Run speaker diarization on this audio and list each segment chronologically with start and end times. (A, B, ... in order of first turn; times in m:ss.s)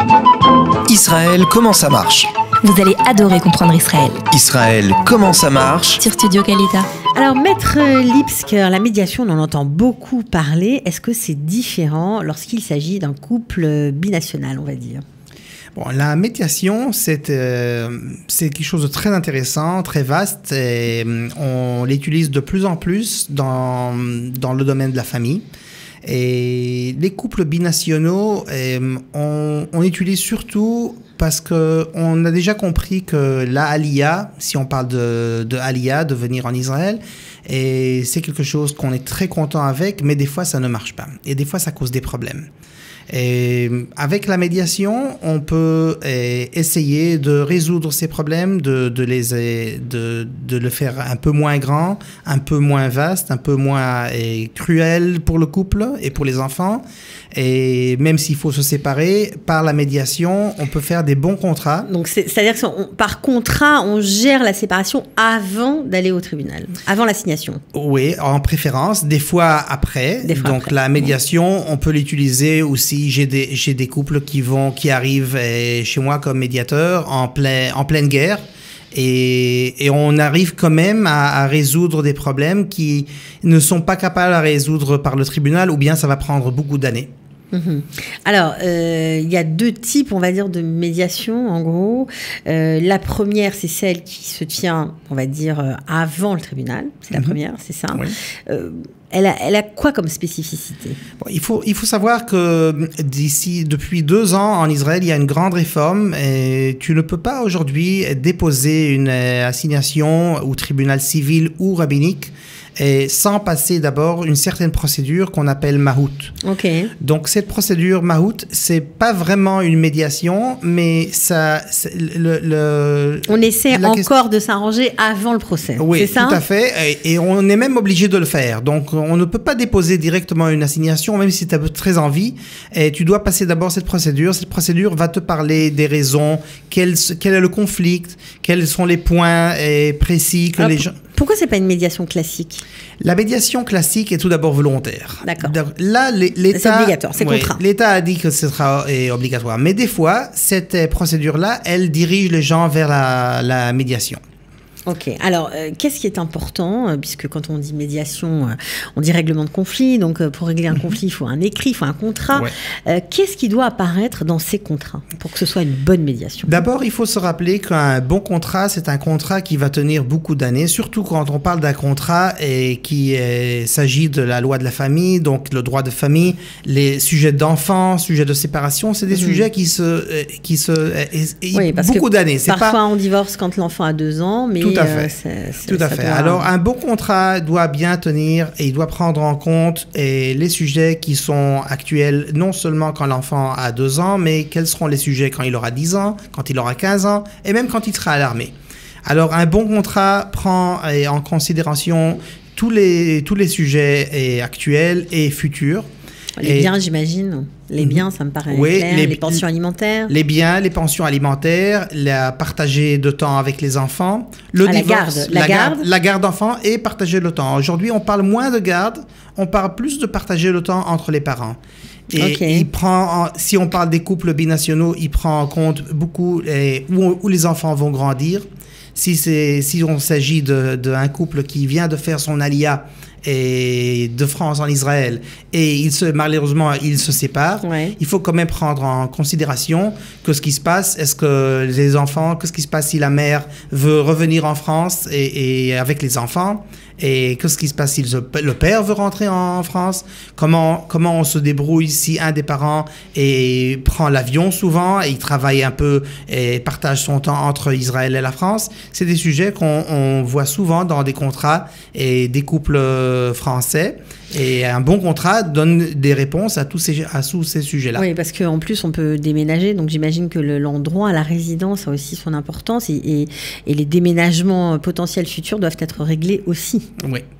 0:00.8-0:02.3 A
0:02.6-0:04.2 B
0:04.3-0:06.0 A
0:06.0-0:06.9 B
0:07.1-0:15.0 C
0:15.7-0:25.4 D
0:26.0-0:42.5 D
0:43.1-1:01.9 D
1:01.8-1:07.6 C
1:07.7-1:27.1 D
1:10.2-1:11.1 C
1:27.5-1:41.0 C
1:37.1-1:37.4 D
1:41.2-1:56.3 D
1:56.4-1:56.9 C
1:57.0-2:04.1 D
2:03.3-2:06.4 C
2:05.8-2:20.9 D
2:20.6-2:22.6 C
2:23.0-2:34.2 D
2:25.2-2:25.6 C
2:26.5-2:27.6 C
2:34.8-2:46.6 C
2:46.4-3:02.8 D
2:59.1-2:59.4 C
3:01.5-3:06.5 C
3:04.6-3:05.1 D
3:05.6-3:18.5 D
3:19.0-3:25.8 D
3:26.4-3:30.1 C
3:26.4-3:26.7 D
3:27.8-3:29.4 D
3:30.1-3:41.6 D
3:34.6-3:35.9 C
3:42.1-4:28.0 D
3:42.2-3:42.7 C
3:57.6-3:58.0 C
4:27.9-4:36.9 C
4:37.0-4:37.2 D